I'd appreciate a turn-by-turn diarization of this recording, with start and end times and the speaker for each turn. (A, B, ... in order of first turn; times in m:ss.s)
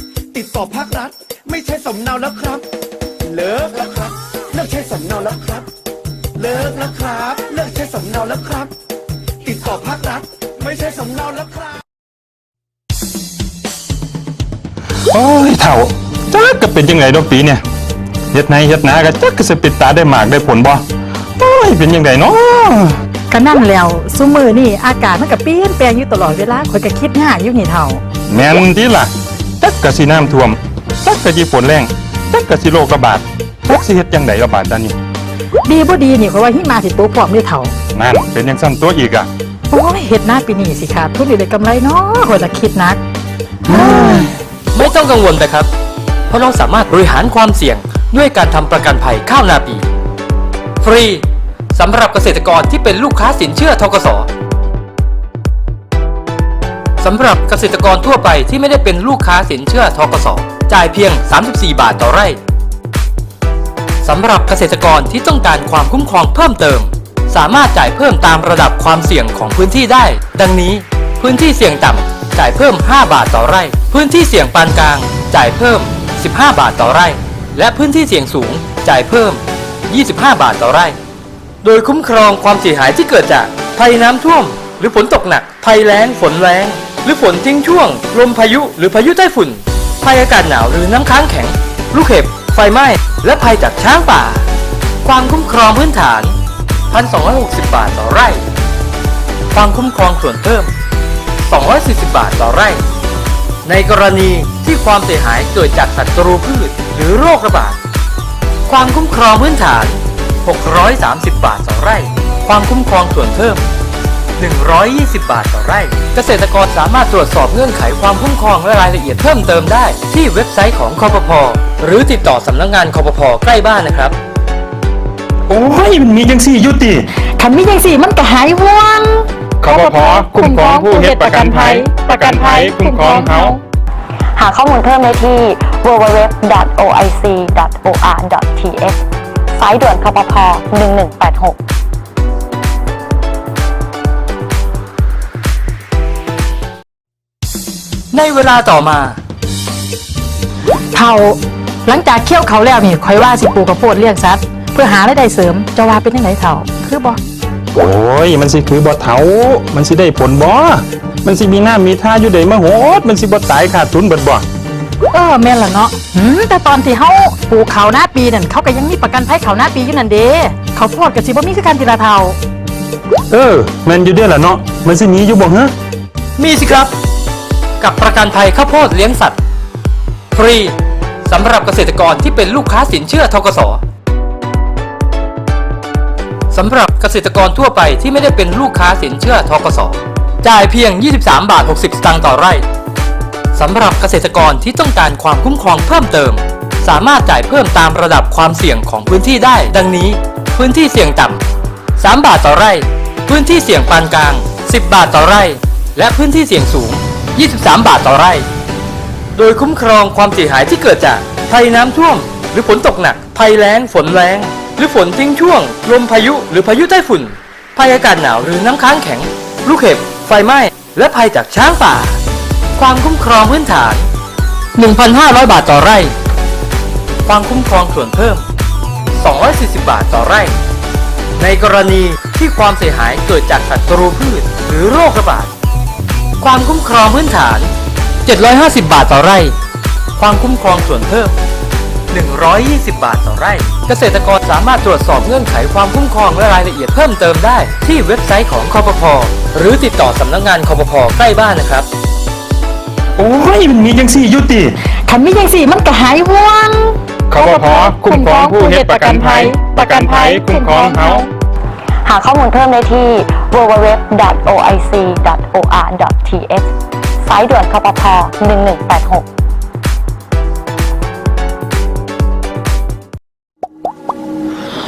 0:00.3-0:02.6 A
0:03.2-0:05.7 A
0:06.4-0:08.7 A
0:09.4-0:11.8 A
0:15.1-0:17.6 B
0:18.3-0:20.8 B
0:21.4-0:23.0 B
0:23.3-0:28.0 C
0:28.3-0:29.1 B
0:29.6-0:35.0 B
0:35.6-0:37.7 C
0:37.9-0:39.3 B
0:39.7-0:43.0 C
0:43.7-0:44.3 B
0:43.7-0:44.3 C
0:44.7-0:45.7 D
0:46.3-0:49.8 D
0:50.8-0:54.3 D
0:57.0-1:02.4 D
1:04.0-1:21.0 D
1:21.6-1:34.5 D
1:35.0-1:36.4 D
1:36.9-1:38.5 D
1:39.5-1:40.7 D
1:41.4-1:42.8 D
1:43.6-1:47.8 D
1:48.7-1:53.7 D
1:54.4-2:04.2 D
2:05.5-2:07.0 B
2:07.2-2:13.6 C
2:09.6-2:13.6 B
2:14.3-2:19.0 E
2:19.5-2:21.6 E
2:28.1-2:29.2 D
2:30.9-2:37.2 C
2:37.7-2:44.4 B
2:45.1-2:52.4 C
2:53.3-2:55.7 B
2:56.4-2:56.9 D
2:57.8-2:59.4 D
3:00.3-3:03.8 D
3:06.5-3:12.6 D
3:13.5-3:21.4 D
3:22.0-3:28.4 D
3:29.4-3:42.2 D
3:42.8-3:44.1 D
3:44.8-3:46.2 D
3:47.2-3:48.4 D
3:49.1-3:50.6 D
3:51.4-3:55.5 D
3:56.4-3:57.7 D
3:58.2-3:59.6 D
4:00.2-4:01.4 D
4:02.1-4:11.9 D
4:13.2-4:14.8 B
4:15.0-4:21.3 C
4:17.3-4:21.3 B
4:22.0-4:29.2 E